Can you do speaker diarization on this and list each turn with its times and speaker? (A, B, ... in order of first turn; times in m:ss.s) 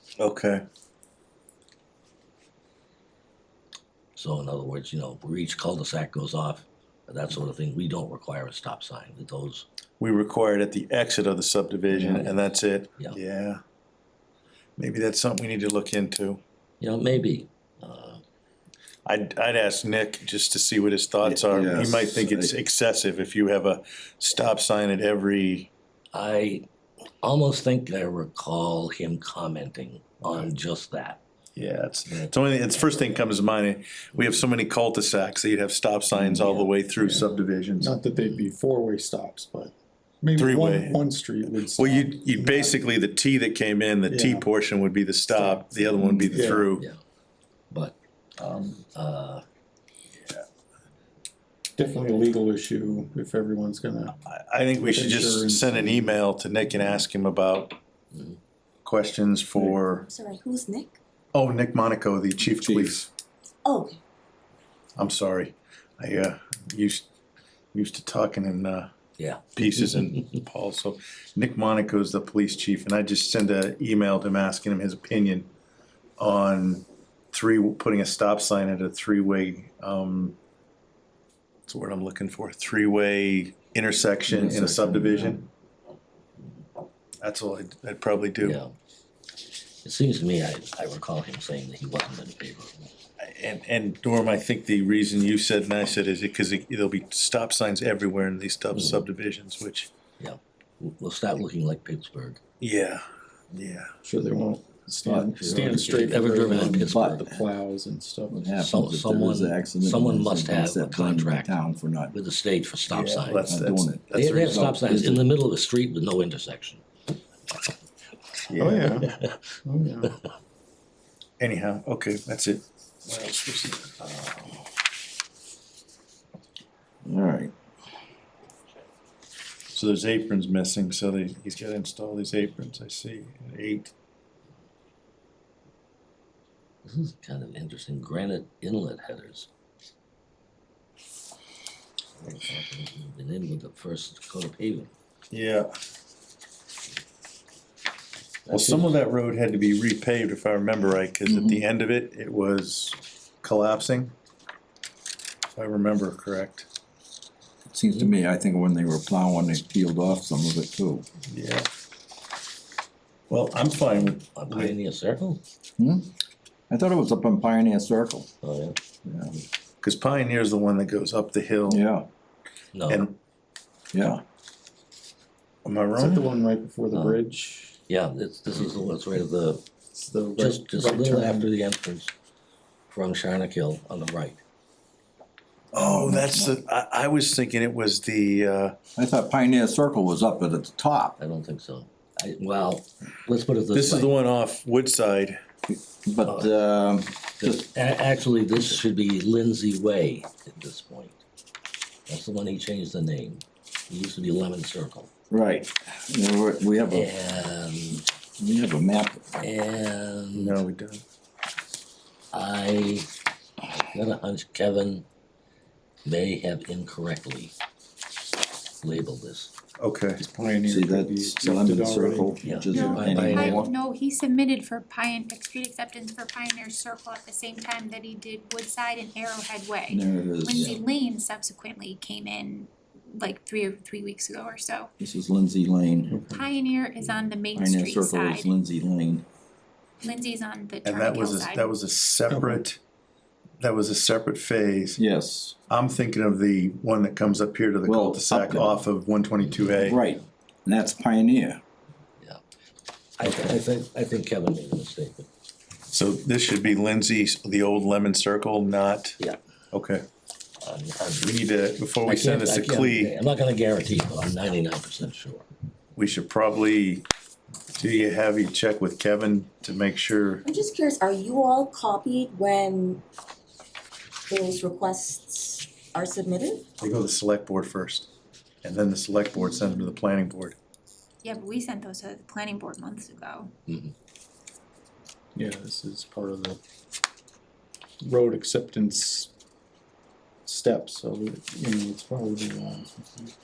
0:00.2-0:00.6 A
0:04.2-0:09.7 B
0:10.0-0:13.6 A
0:12.0-0:12.4 B
0:12.0-0:12.3 C
0:14.8-0:16.4 A
0:16.8-0:18.2 B
0:19.1-0:25.7 A
0:21.2-0:22.5 C
0:26.1-0:26.7 B
0:27.2-0:31.2 B
0:31.6-0:37.9 A
0:36.1-0:37.0 B
0:37.0-0:37.3 D
0:37.8-0:42.8 D
0:38.2-0:38.5 B
0:40.4-0:41.0 A
0:41.8-0:46.8 A
0:44.1-0:44.5 D
0:46.0-0:46.6 C
0:46.3-0:46.7 D
0:47.7-0:48.0 B
0:48.4-0:48.8 A
0:48.9-0:49.4 B
0:51.8-0:54.2 D
0:54.2-0:57.8 A
0:54.8-0:56.2 D
0:58.1-0:58.4 B
0:58.8-1:00.1 A
1:00.0-1:01.0 E
1:01.3-1:03.1 A
1:03.6-1:04.0 E
1:05.0-1:07.1 A
1:07.7-1:08.9 A
1:09.2-1:10.3 B
1:09.6-1:15.5 A
1:16.2-1:20.4 A
1:21.7-1:25.4 A
1:24.3-1:25.4 B
1:27.2-1:28.6 A
1:28.4-1:28.7 B
1:29.8-1:32.8 B
1:33.2-1:39.9 A
1:38.7-1:39.1 B
1:40.2-1:42.4 B
1:42.6-1:43.9 A
1:44.0-1:48.4 D
1:45.0-1:47.4 C
1:45.3-1:47.4 B
1:48.3-1:52.2 C
1:48.6-1:51.6 B
1:52.1-1:53.5 B
1:52.9-1:54.8 A
1:53.5-1:55.2 C
1:54.1-1:56.8 B
1:58.5-1:59.1 A
1:58.6-1:59.1 D
1:58.8-1:59.3 B
1:59.6-2:00.1 D
2:01.4-2:04.0 A
2:07.0-2:07.5 C
2:09.7-2:13.9 A
2:16.8-2:19.5 B
2:22.2-2:24.9 B
2:25.3-2:25.7 A
2:28.5-2:29.0 B
2:28.5-2:34.2 A
2:31.3-2:31.6 C
2:35.6-2:36.7 A
2:37.7-2:41.1 C
2:41.3-2:41.7 A
2:43.3-2:44.8 A
2:43.9-2:45.4 B
2:45.8-2:46.1 C
2:46.7-2:48.3 C
2:48.4-2:48.8 B
2:49.0-2:49.4 C
2:49.8-2:51.8 A
2:51.7-2:52.1 C
2:52.7-2:53.1 B
2:52.9-2:53.2 A
2:53.9-2:54.2 C
2:55.6-2:56.3 A
2:56.0-2:57.8 D
2:56.9-2:57.2 B
2:57.9-2:59.6 B
2:59.9-3:01.5 D
3:00.4-3:02.1 B
3:02.9-3:04.4 B
3:05.7-3:06.6 C
3:05.7-3:08.8 A
3:09.0-3:11.2 C
3:11.2-3:14.1 B
3:13.7-3:15.4 A
3:15.7-3:17.7 C
3:17.4-3:21.2 B
3:22.1-3:25.1 B
3:25.3-3:27.1 C
3:26.9-3:28.0 B
3:28.4-3:29.4 C
3:29.4-3:30.6 B
3:30.4-3:31.0 A
3:32.3-3:33.1 B
3:33.7-3:35.0 B
3:36.0-3:37.5 B
3:38.8-3:39.5 B
3:39.8-3:40.2 A
3:40.2-3:43.0 D
3:40.7-3:43.7 C
3:42.4-3:43.7 B
3:42.7-3:54.9 F
3:49.9-3:50.8 C
3:55.0-3:56.2 C
3:56.1-3:56.4 D
3:56.3-3:58.5 F
3:57.6-3:59.3 C
4:00.0-4:01.8 F
4:00.8-4:02.8 A
4:02.3-4:02.6 D
4:03.6-4:05.0 A
4:05.0-4:05.6 C
4:05.7-4:10.0 A
4:07.8-4:08.8 C
4:09.4-4:10.0 B
4:09.8-4:11.6 C
4:13.2-4:15.3 B
4:15.9-4:19.2 A
4:19.7-4:20.1 A
4:20.6-4:21.3 B
4:21.2-4:23.2 A
4:22.0-4:25.5 B
4:26.0-4:27.1 A
4:27.8-4:30.4 A
4:30.4-4:33.0 E
4:34.3-4:36.7 E
4:36.8-4:38.1 A
4:38.6-4:40.6 A
4:41.2-4:43.5 F
4:45.4-4:46.6 D
4:48.0-4:49.3 D
4:50.4-4:53.3 D